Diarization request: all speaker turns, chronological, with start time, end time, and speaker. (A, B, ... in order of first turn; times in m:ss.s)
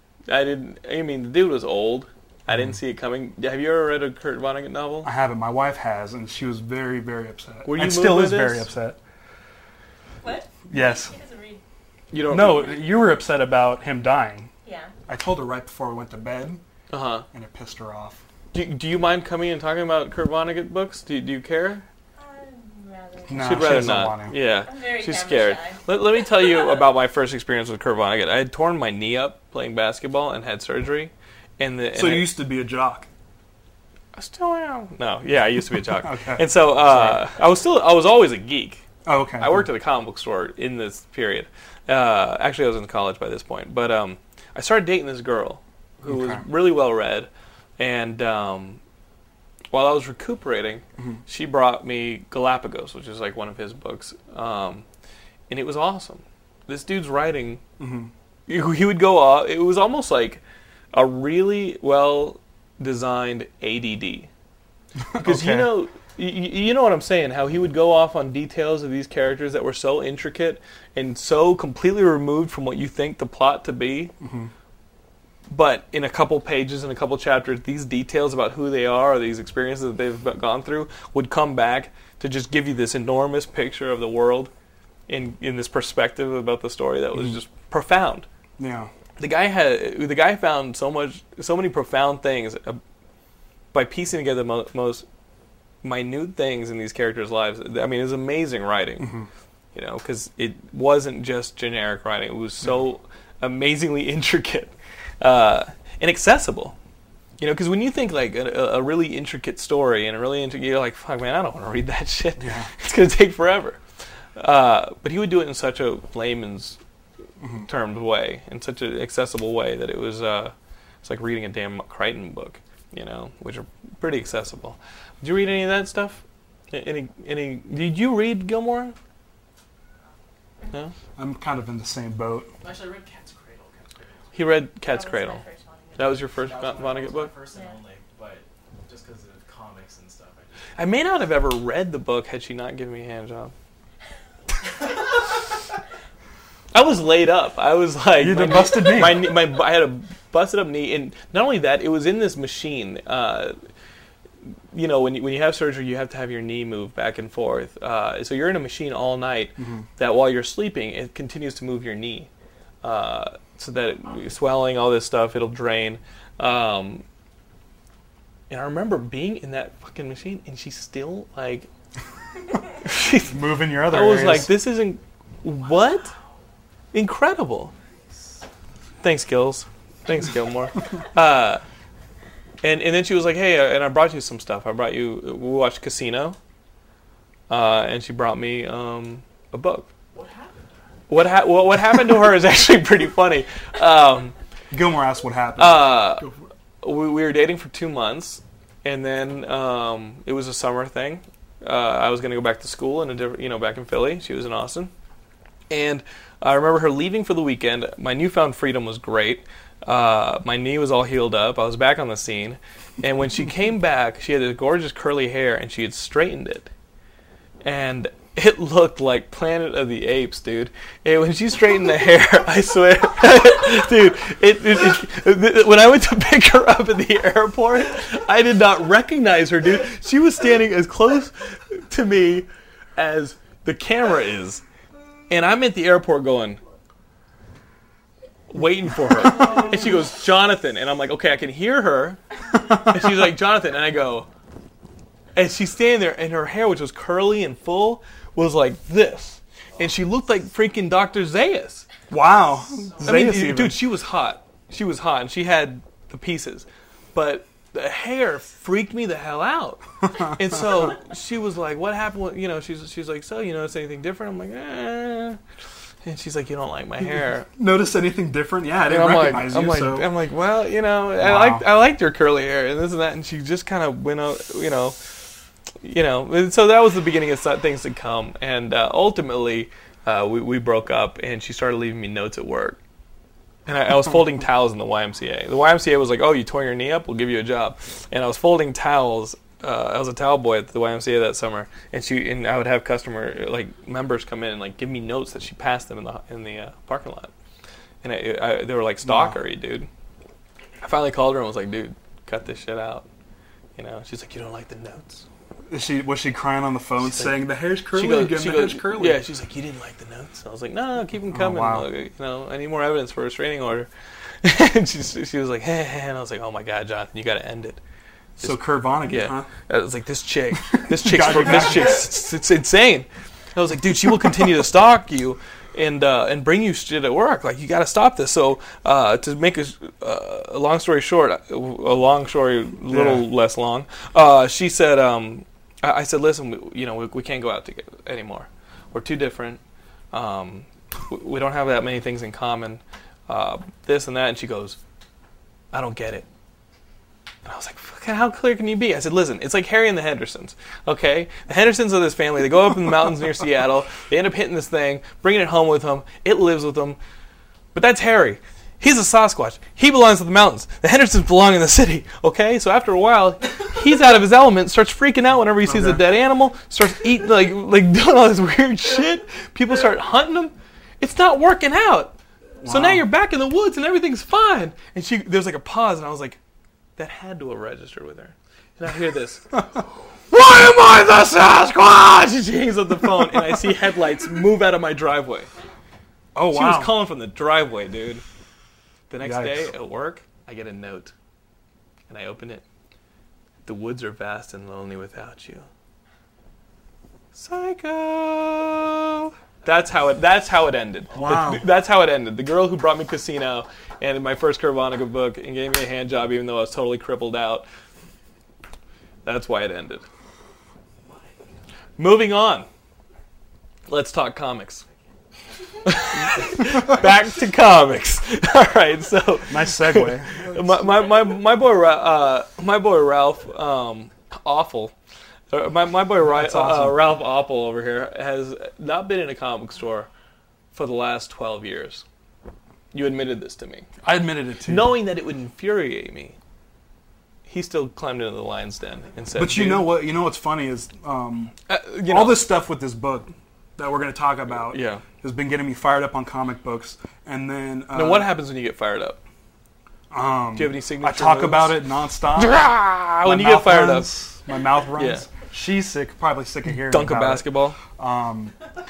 0:00.3-0:05.1 A
0:05.0-0:09.0 B
0:07.6-0:08.7 A
0:10.2-0:11.6 C
0:10.7-0:11.1 B
0:12.1-0:12.8 A
0:12.3-0:14.5 B
0:14.6-0:14.9 C
0:15.1-0:16.6 B
0:16.9-0:17.2 A
0:17.3-0:18.2 B
0:18.5-0:21.8 A
0:22.2-0:24.0 C
0:23.3-0:24.4 B
0:23.3-0:32.3 A
0:24.6-0:26.8 C
0:31.9-0:33.1 B
0:34.1-0:38.8 A
0:36.0-0:37.2 B
0:39.0-0:39.6 B
0:39.4-0:48.8 A
0:46.0-0:46.4 B
0:49.7-0:54.8 A
0:55.5-0:57.6 A
0:57.8-0:58.1 B
0:58.5-1:00.4 A
1:00.9-1:04.3 A
1:05.0-1:05.8 B
1:05.2-1:14.1 A
1:14.2-1:14.5 B
1:15.5-1:24.5 A
1:25.1-1:28.2 A
1:28.6-1:28.9 B
1:29.2-1:32.8 A
1:33.7-1:35.0 A
1:35.8-1:39.2 A
1:39.0-1:39.3 B
1:39.7-1:46.7 A
1:47.4-1:53.8 A
1:52.4-1:52.7 B
1:54.4-1:56.8 A
1:57.4-1:57.7 B
1:57.6-2:09.0 A
2:11.2-2:12.5 B
2:12.6-2:14.4 D
2:14.3-2:15.4 A
2:14.8-2:16.3 C
2:16.0-2:17.3 A
2:16.3-2:20.6 D
2:17.5-2:17.8 C
2:20.8-2:23.5 A
2:26.7-2:33.6 A
2:28.2-2:29.3 B
2:34.7-2:42.3 A
2:39.6-2:39.8 B
2:42.8-2:47.0 A
2:48.5-2:51.7 A
2:52.8-2:56.1 A
2:53.2-2:54.5 B
2:55.8-2:56.2 D
2:56.9-2:57.7 A
2:59.0-3:01.6 A
3:02.6-3:06.4 A
3:07.5-3:09.9 A
3:10.1-3:10.6 D
3:11.1-3:14.3 A
3:14.7-3:16.4 B
3:15.6-3:16.3 A
3:16.8-3:24.9 A
3:25.7-3:36.7 A
3:37.6-3:54.6 A
3:55.3-3:56.6 A
3:58.5-4:02.2 A
4:02.7-4:04.3 A
4:05.3-4:11.9 A
4:12.1-4:13.8 B
4:13.0-4:25.4 A
4:26.0-4:27.5 A
4:27.5-4:30.1 B
4:28.8-4:35.0 A
4:31.2-4:31.7 B
4:35.8-4:42.8 A
4:43.6-4:57.3 A
4:58.0-4:59.9 A
4:59.0-4:59.4 B
5:00.8-5:03.0 A
5:03.8-5:05.2 A
5:05.7-5:09.2 B
5:07.0-5:07.4 A
5:07.9-5:13.9 A
5:11.3-5:11.9 B
5:14.4-5:17.8 A
5:18.4-5:39.6 A
5:18.4-5:19.5 B
5:20.8-5:22.1 B
5:32.9-5:33.2 B
5:40.1-5:44.8 A
5:45.7-5:46.2 A
5:47.4-5:57.0 A
5:57.7-6:16.4 A
6:05.6-6:06.0 B
6:12.6-6:13.0 B
6:17.0-6:19.6 A
6:20.3-6:25.5 A
6:26.3-6:27.0 B
6:26.5-6:28.2 A
6:29.1-6:31.1 A
6:29.2-6:29.7 B
6:32.1-6:32.6 A
6:33.6-6:35.7 A
6:37.3-6:47.6 A
6:41.1-6:41.6 B
6:49.2-6:50.0 A
6:52.0-6:52.7 A
6:53.9-6:54.8 A
6:55.8-7:04.9 A
6:59.5-7:00.8 B
7:05.5-7:10.1 A
7:06.2-7:07.0 B
7:10.7-7:12.0 A
7:12.9-7:14.0 A
7:14.0-7:14.9 B
7:14.6-7:16.4 A
7:17.5-7:19.9 A
7:19.4-7:21.6 B
7:21.7-7:22.5 A
7:22.1-7:28.3 B
7:24.7-7:25.0 A
7:27.9-7:29.2 A
7:30.1-7:38.5 B
7:30.6-7:31.8 A
7:32.3-7:34.1 A
7:34.9-7:35.3 A
7:36.7-7:37.8 A